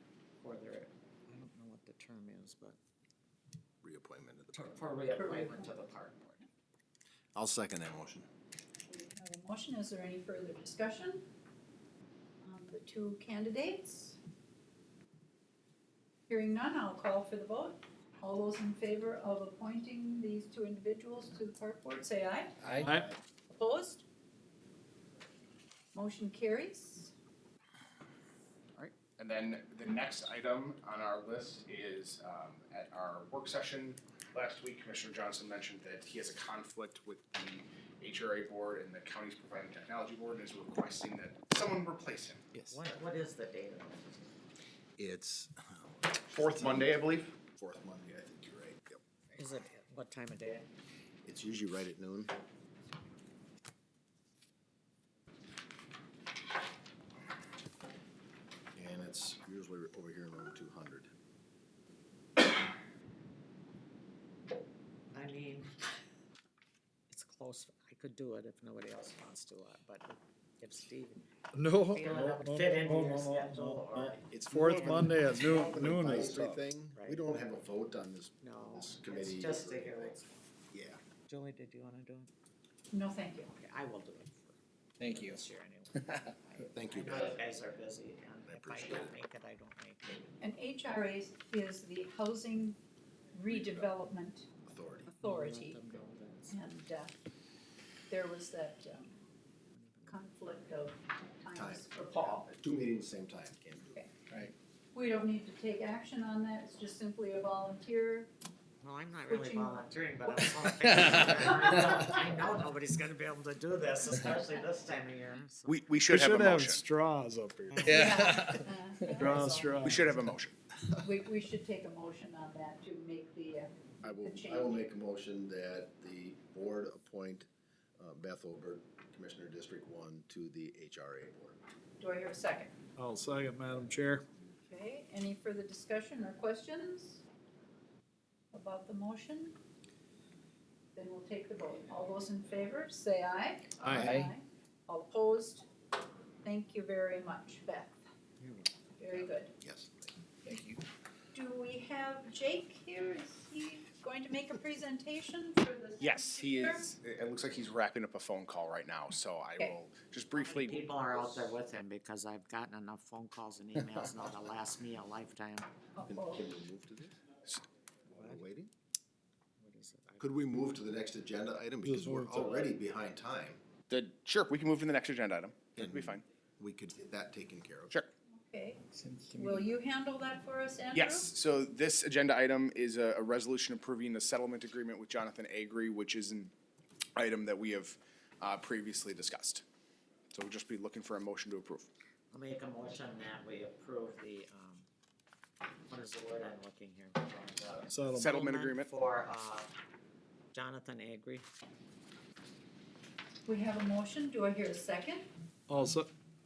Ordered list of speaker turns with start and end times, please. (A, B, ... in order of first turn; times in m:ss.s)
0:00.4-0:02.8 A
0:03.8-0:04.8 B
0:04.5-0:06.5 A
0:05.2-0:05.7 C
0:07.3-0:08.3 B
0:08.9-0:11.2 C
0:12.4-0:14.2 C
0:16.3-0:22.8 C
0:22.6-0:23.0 D
0:22.8-0:23.1 E
0:23.5-0:24.0 C
0:25.9-0:27.1 C
0:28.9-0:42.5 F
0:42.5-0:42.9 B
0:42.7-0:44.3 A
0:45.0-0:49.4 B
0:46.3-0:47.4 F
0:49.3-0:50.7 A
0:51.2-0:52.3 B
0:58.7-1:01.1 B
1:05.1-1:05.7 A
1:07.1-1:16.2 A
1:11.5-1:16.6 E
1:14.3-1:20.2 B
1:16.9-1:17.2 A
1:18.4-1:20.4 A
1:20.7-1:21.0 B
1:21.3-1:22.3 A
1:22.9-1:23.5 C
1:23.5-1:30.4 A
1:25.0-1:25.4 D
1:26.7-1:27.4 B
1:28.4-1:29.2 B
1:30.4-1:32.8 C
1:33.3-1:34.5 C
1:34.6-1:35.1 B
1:35.1-1:36.6 A
1:35.2-1:35.8 C
1:36.5-1:37.2 C
1:38.1-1:39.2 C
1:39.8-1:40.2 A
1:40.1-1:42.5 C
1:41.5-1:44.0 B
1:44.9-1:48.3 C
1:48.8-1:56.0 A
1:49.3-1:50.5 C
1:50.8-1:51.2 D
1:55.6-1:56.8 F
1:56.1-1:58.3 E
1:57.8-1:59.3 D
1:57.9-1:59.9 C
1:59.2-2:00.1 E
1:59.8-2:00.6 F
2:01.0-2:04.9 C
2:04.1-2:11.6 B
2:12.0-2:12.8 C
2:13.0-2:14.2 E
2:14.6-2:17.2 C
2:18.5-2:19.6 C
2:20.9-2:25.7 C
2:23.8-2:24.1 B
2:23.9-2:24.3 D
2:26.4-2:28.0 C
2:28.4-2:29.3 A
2:29.0-2:29.5 C
2:29.6-2:30.1 B
2:30.4-2:30.8 D
2:31.3-2:36.9 C
2:36.0-2:41.5 F
2:40.4-2:45.7 A
2:46.0-2:46.4 C
2:46.1-2:47.2 B
2:48.1-2:48.7 B
2:48.1-2:48.4 A
2:49.6-2:50.4 A
2:50.2-2:53.6 B
2:51.8-2:52.6 E
2:53.9-2:56.2 F
2:55.8-2:58.0 B
2:58.3-3:01.3 C
2:58.9-2:59.7 D
3:00.9-3:06.5 F
3:07.2-3:09.6 F
3:10.3-3:11.9 F
3:12.3-3:14.9 A
3:15.9-3:19.7 A
3:17.9-3:18.4 E
3:18.1-3:18.9 F
3:20.5-3:21.4 A
3:23.5-3:25.2 C
3:25.7-3:26.1 E